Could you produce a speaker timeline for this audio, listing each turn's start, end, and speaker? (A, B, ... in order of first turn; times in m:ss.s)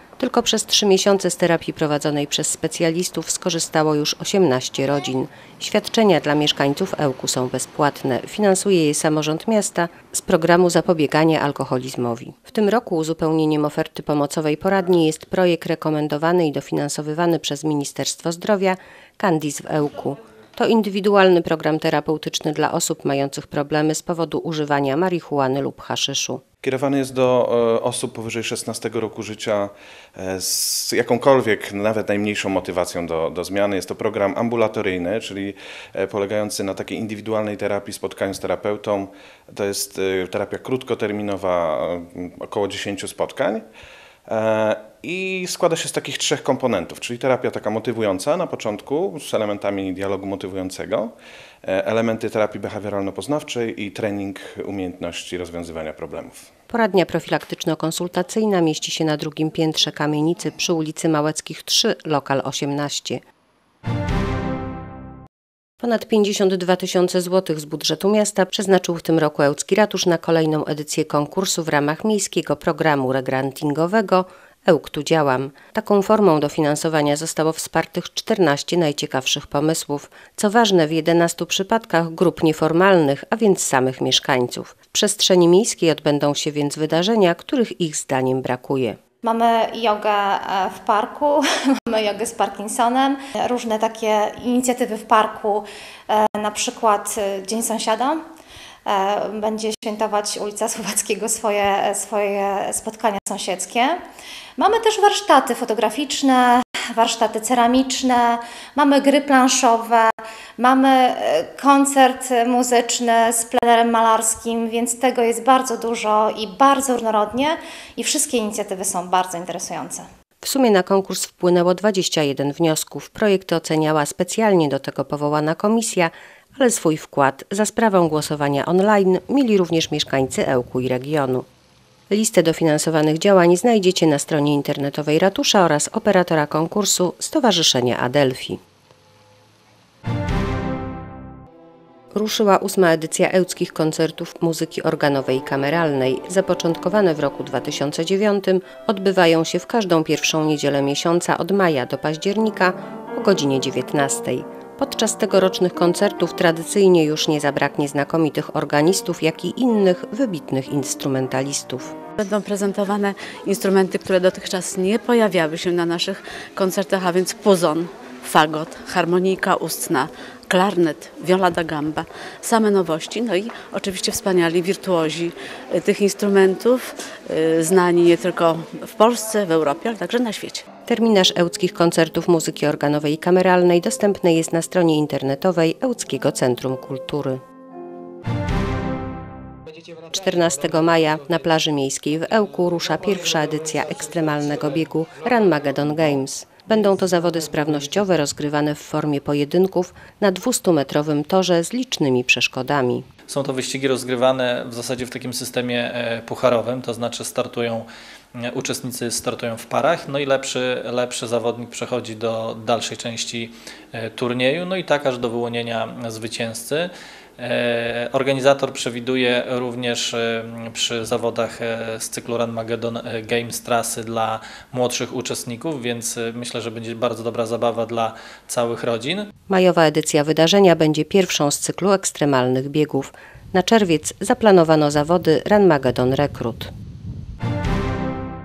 0:00.2-0:26.4 A
0:26.6-0:43.6 B
0:44.3-0:51.1 B
0:51.6-0:56.4 B
0:56.7-1:03.2 A
1:05.8-1:29.0 A
1:29.2-1:38.2 C
1:38.9-1:44.0 C
1:44.6-2:00.1 C
2:00.4-2:11.5 A
2:12.1-2:18.6 A
2:22.1-2:42.0 A
2:42.2-3:00.6 D
3:00.9-3:07.4 A
3:10.1-3:23.1 A
3:23.3-3:49.3 E
3:49.5-3:56.7 A